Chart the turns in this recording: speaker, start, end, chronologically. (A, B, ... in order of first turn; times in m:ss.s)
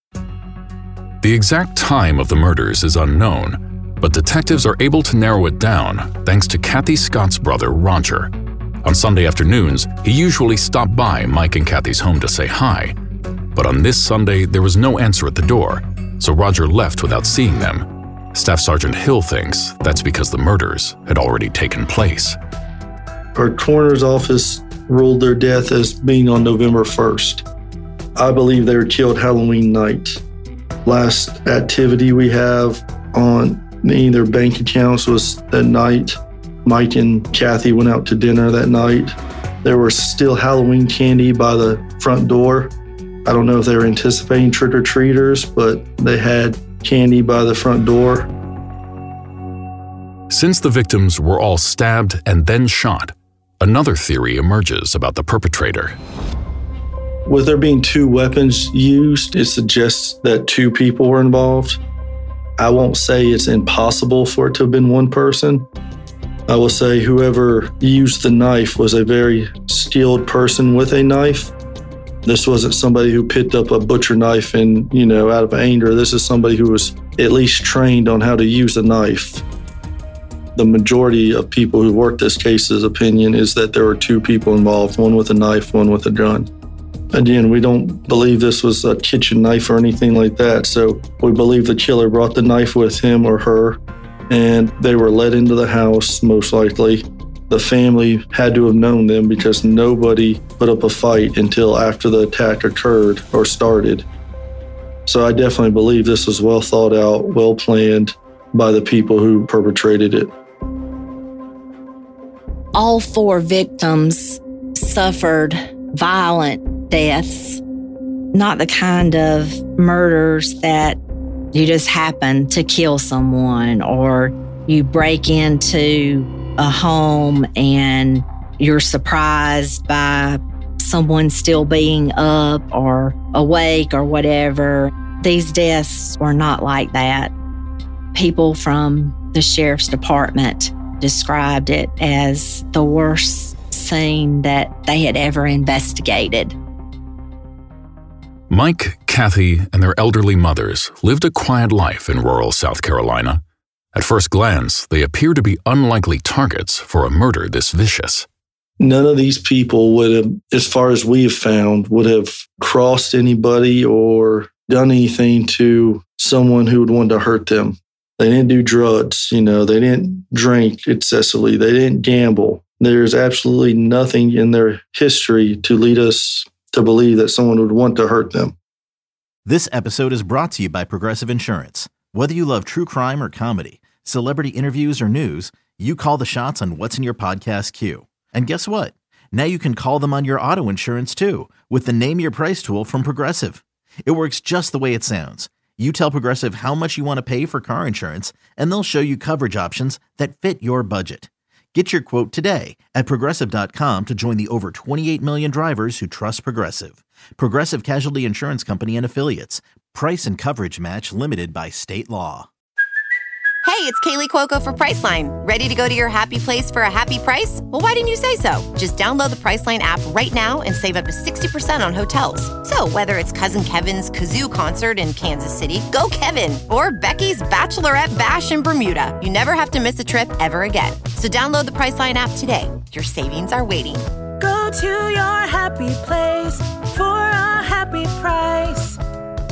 0:01.2-0:08.3 A
0:08.8-0:13.0 A
0:13.6-0:22.4 A
0:23.4-0:27.4 B
0:28.2-0:30.2 B
0:30.8-0:42.7 B
0:43.3-0:48.3 B
0:50.3-0:56.0 A
0:57.3-1:01.8 B
1:02.6-1:05.7 B
1:06.5-1:11.5 B
1:12.2-1:19.4 B
1:20.6-1:26.5 B
1:27.1-1:44.1 B
1:45.1-1:50.3 B
1:52.8-1:57.6 C
1:58.3-2:01.0 C
2:01.5-2:17.3 C
2:18.1-2:26.6 C
2:28.5-2:33.4 A
2:33.9-2:38.3 A
2:38.8-2:58.6 B
2:59.4-3:32.5 D
3:33.6-3:54.0 E
3:54.4-3:59.0 F